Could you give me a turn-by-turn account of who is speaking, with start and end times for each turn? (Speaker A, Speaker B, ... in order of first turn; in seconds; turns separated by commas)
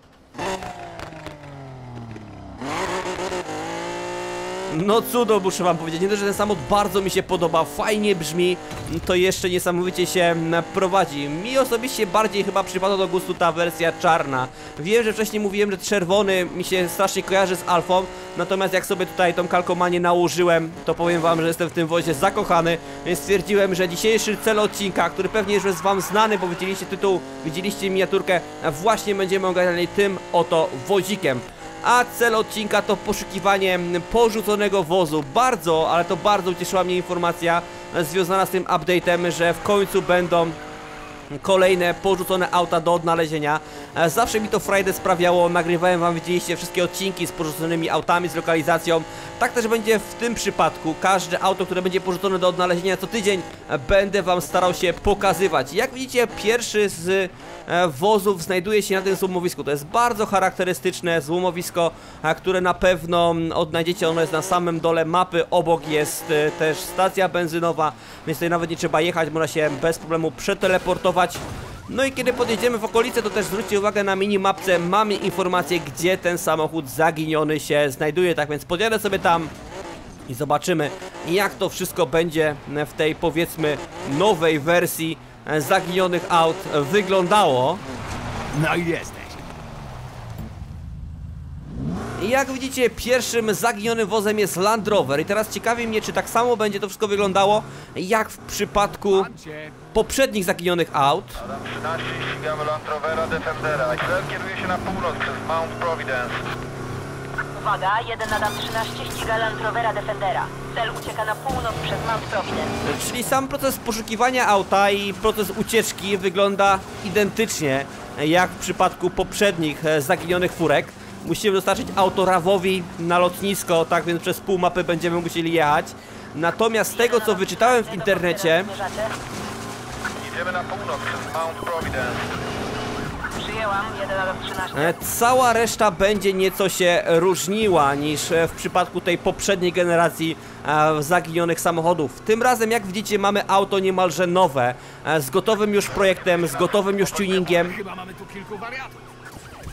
Speaker A: 4.7-40.6, Speaker A: 41.3-79.5, Speaker A: 80.3-87.8, Speaker B: 88.5-89.5, Speaker A: 92.2-99.3, Speaker B: 99.1-99.8, Speaker A: 99.9-101.4, Speaker C: 101.5-106.4, Speaker D: 107.5-112.7, Speaker A: 112.8-128.7, Speaker D: 126.9-129.2, Speaker C: 130.2-132.3, Speaker D: 133.3-134.9, Speaker A: 134.7-147.8, Speaker B: 147.6-149.0